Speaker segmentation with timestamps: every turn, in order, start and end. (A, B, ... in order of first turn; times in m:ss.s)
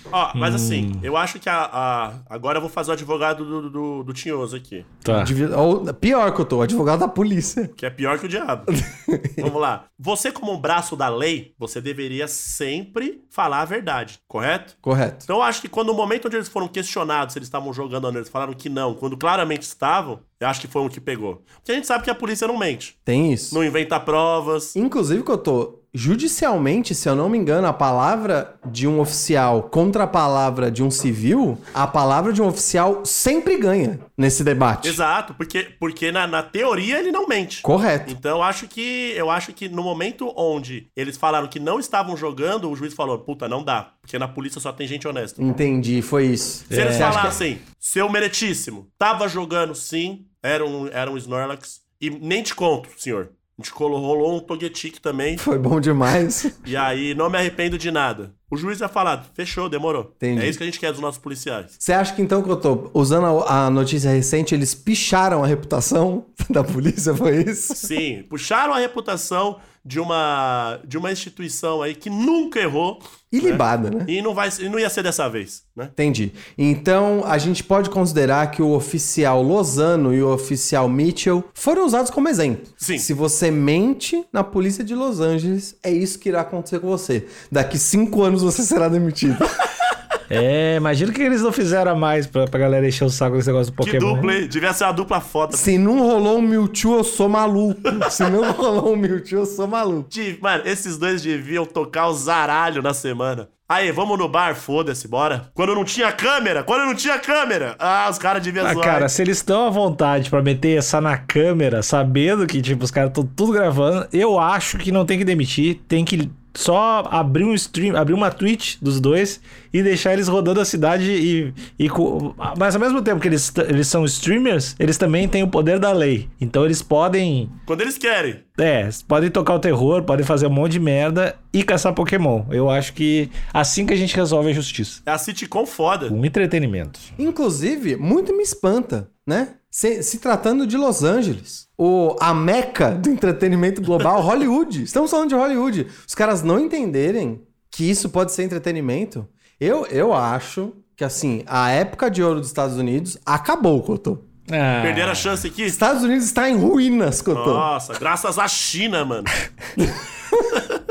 0:00.1-0:04.9 A
0:00.4-0:01.0 B
0:05.0-0:05.3 B
0:05.1-0:07.7 C
0:07.8-0:08.7 A
0:08.7-0:09.5 C
0:09.4-0:23.0 A
0:14.8-0:15.3 C
0:23.1-0:23.6 C
0:23.5-0:24.8 A
0:24.8-0:35.0 C
0:34.8-0:45.4 A
0:37.6-0:38.2 C
0:45.4-0:47.4 C
0:46.7-0:47.3 B
0:46.7-0:55.4 A
0:55.4-0:56.6 C
0:56.6-1:01.7 A
1:00.2-1:00.6 C
1:01.8-1:07.9 C
1:07.8-1:15.9 A
1:13.3-1:14.1 C
1:16.0-1:29.5 C
1:22.8-1:23.1 A
1:30.3-1:34.4 B
1:33.8-1:35.7 A
1:35.5-1:40.1 C
1:40.1-1:49.1 A
1:48.6-2:07.5 B
2:07.7-2:08.4 A
2:08.6-2:15.0 B
2:15.1-2:16.2 A
2:16.1-2:17.1 B
2:17.2-2:34.2 C
2:34.5-2:35.4 B
2:34.8-2:35.8 A
2:35.7-2:37.7 C
2:37.3-2:39.3 A